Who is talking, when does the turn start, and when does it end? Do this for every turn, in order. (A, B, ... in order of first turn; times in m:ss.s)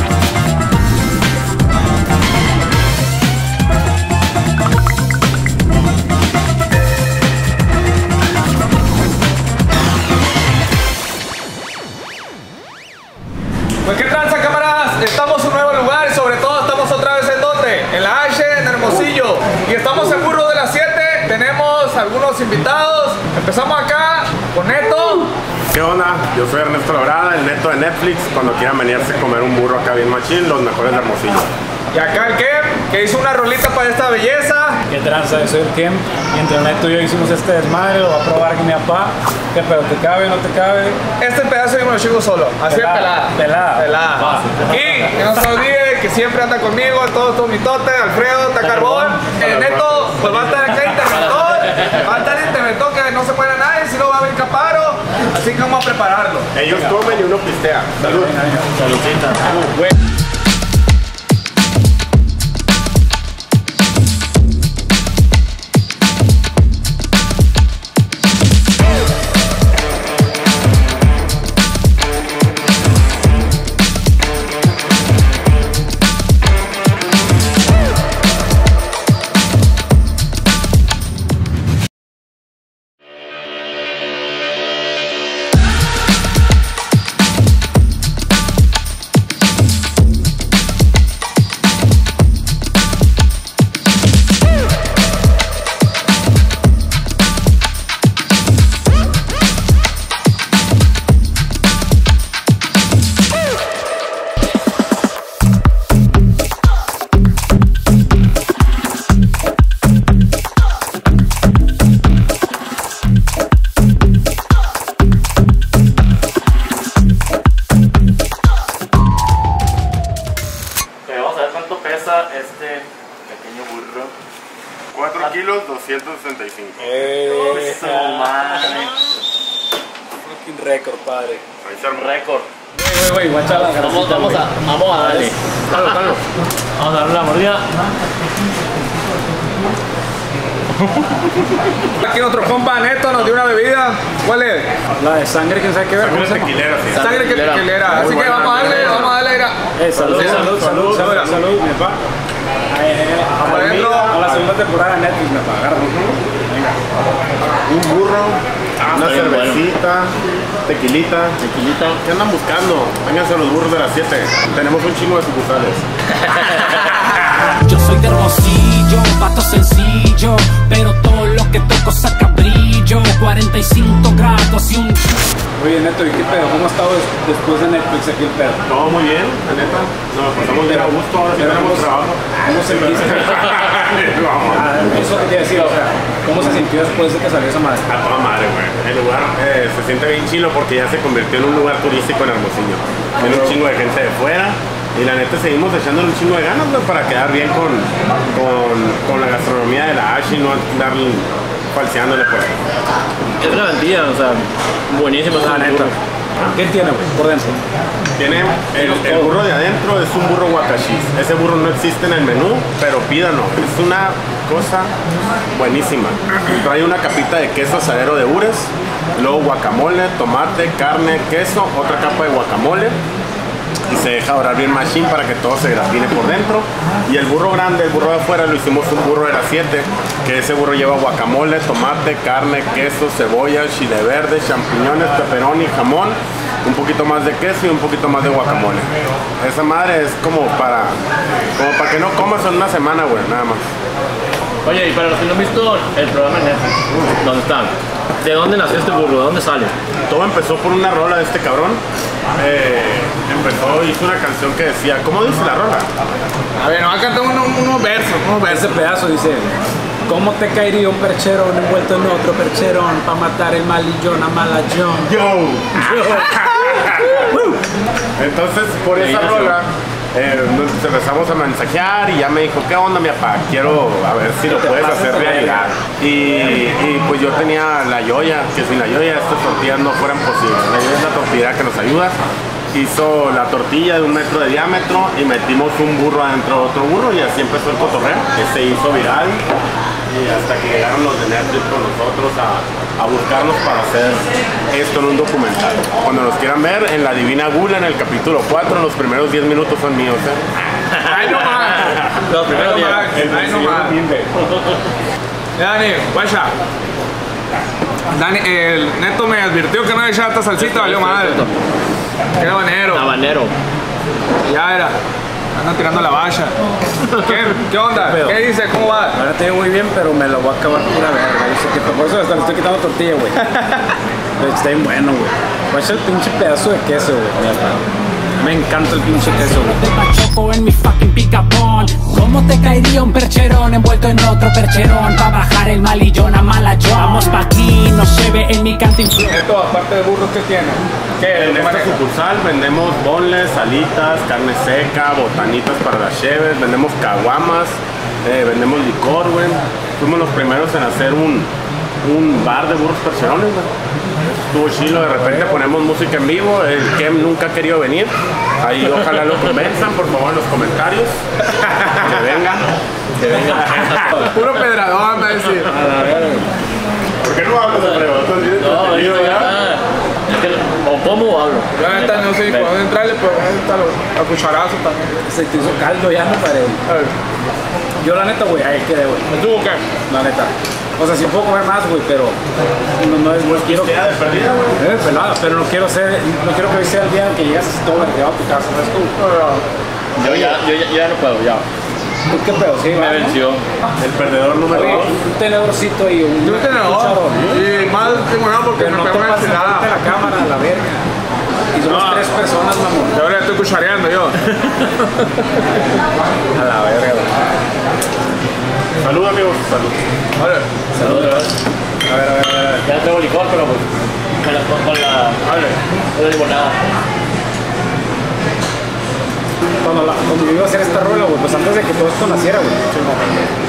0:13.8-0:25.3 A
0:25.7-0:31.5 B
0:31.9-0:34.8 A
0:34.9-0:41.0 C
0:41.2-0:56.5 A
0:42.6-0:43.9 C
0:44.2-0:44.6 D
0:56.5-0:58.3 B
0:58.0-0:58.7 C
0:58.7-0:59.5 D
2:01.0-2:04.1 D
2:04.9-2:07.0 B
2:06.8-2:08.9 C
2:07.2-2:09.0 D
2:10.2-2:11.4 C
2:11.6-2:12.2 B
2:11.9-2:12.5 D
2:12.7-2:14.5 C
2:13.5-2:16.2 D
2:15.0-2:16.2 C
2:16.8-2:17.6 D
2:22.0-2:24.7 A
2:25.0-2:26.5 C
2:26.0-2:27.1 B
2:26.9-2:29.2 D
2:27.0-2:29.6 A
2:27.9-2:29.2 B
2:29.8-2:32.0 C
2:29.9-2:30.5 D
2:30.0-2:31.3 B
2:30.2-2:31.4 A
2:32.7-2:36.8 C
2:33.4-2:34.1 A
2:33.4-2:34.5 B
2:37.6-2:41.4 B
2:38.8-2:39.7 D
2:41.4-2:42.0 D
2:42.0-2:45.8 B
2:46.3-2:46.8 D
2:47.5-2:55.2 E
2:55.6-2:58.6 C
2:58.6-3:05.2 B
3:00.6-3:03.4 C
3:04.5-3:07.9 C
3:07.9-3:22.6 B
3:23.4-3:26.0 D
3:25.3-3:27.6 C
3:28.2-3:34.9 B
3:28.8-3:29.4 C
3:35.5-3:43.0 B
3:43.8-4:01.0 B
4:01.6-4:03.7 B
4:04.6-4:09.7 D
4:10.1-4:11.8 B
4:12.4-4:15.9 B
4:16.6-4:18.8 A
4:18.4-4:19.5 C
4:20.0-4:25.2 C
4:25.0-4:27.4 B
4:25.8-4:27.5 C
4:28.2-4:42.2 B
4:28.9-4:29.6 D
4:34.4-4:35.7 C
4:42.7-4:49.4 B
4:50.1-5:00.5 B
5:00.9-5:01.3 D
5:01.0-5:04.0 A
5:02.2-5:03.3 D
5:03.1-5:03.7 B
5:03.2-5:04.2 C
5:05.6-5:06.5 A
5:08.1-5:11.4 A
5:10.6-5:11.6 D
5:12.3-5:13.1 A
5:12.9-5:13.5 D
5:14.4-5:15.0 A
5:15.5-5:16.5 A
5:17.0-5:17.6 D
5:17.2-5:19.2 A
5:18.0-5:18.4 C
5:19.1-5:23.8 C
5:24.4-5:27.8 C
5:28.4-5:29.8 C
5:29.5-5:39.2 E
5:39.2-5:42.0 A
5:41.3-5:51.5 B
5:52.0-5:53.7 B
5:54.4-6:02.7 B
6:03.2-6:04.2 D
6:03.5-6:04.1 B
6:04.2-6:05.7 A
6:05.7-6:06.4 C
6:07.2-6:09.6 B
6:08.6-6:12.7 D
6:11.8-6:15.2 A
6:15.2-6:16.8 C
6:18.0-6:19.3 C
6:19.3-6:19.8 A
6:20.0-6:22.4 C
6:23.0-6:24.0 C
6:23.4-6:24.8 B
6:24.8-6:29.2 C
6:29.2-6:29.6 A
6:30.2-6:31.6 D
6:30.2-6:30.6 C
6:32.3-6:33.4 C
6:33.0-6:33.6 D
6:34.0-6:35.1 B
6:34.7-6:37.6 C
6:34.8-6:35.1 D
6:36.4-6:39.9 A
6:38.8-6:41.0 C
6:41.7-6:43.2 C
6:41.8-6:42.3 A
6:43.1-6:44.4 A
6:46.5-6:47.3 C
6:49.0-6:50.0 B
6:50.4-6:50.7 A
6:50.9-6:51.4 C
6:51.0-6:51.5 D
6:52.0-6:52.9 C
6:52.8-6:55.4 D
6:55.4-6:55.8 A
6:56.1-6:56.8 D
6:59.8-7:03.2 C